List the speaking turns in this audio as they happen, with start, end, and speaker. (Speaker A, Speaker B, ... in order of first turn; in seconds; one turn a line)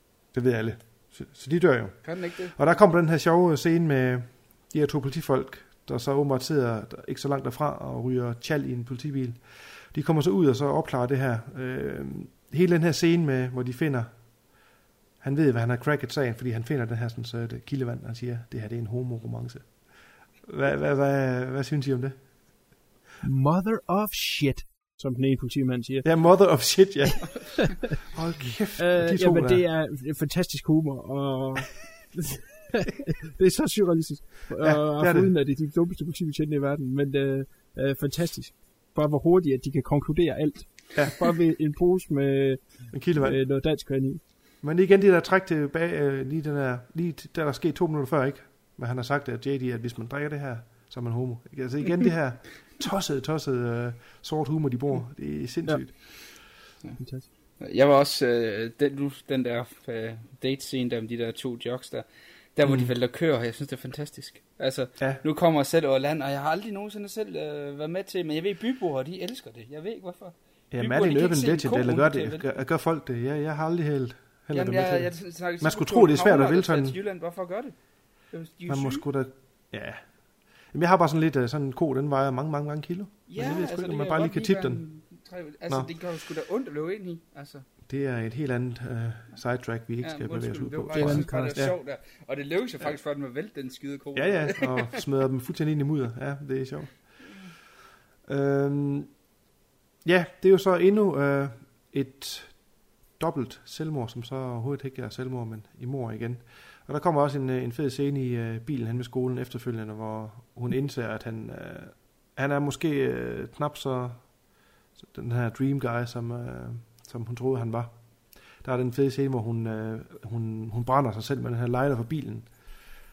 Speaker A: 0.3-14.6
Speaker B: 2.0-2.6
Speaker A: 15.2-22.5
Speaker C: 23.2-26.6
Speaker A: 26.0-29.6
Speaker C: 28.8-44.2
Speaker A: 34.6-35.3
Speaker A: 42.9-43.4
Speaker A: 44.6-56.4
Speaker B: 56.8-62.0
Speaker C: 57.0-57.3
Speaker B: 62.6-72.5
Speaker A: 62.6-62.9
Speaker A: 70.7-77.0
Speaker B: 74.5-79.1
Speaker A: 78.7-84.9
Speaker B: 83.3-87.7
Speaker A: 85.7-85.9
Speaker A: 87.8-91.8
Speaker B: 90.0-95.0
Speaker C: 90.9-91.6
Speaker A: 94.1-97.4
Speaker A: 98.2-99.2
Speaker A: 100.0-114.4
Speaker A: 115.0-122.8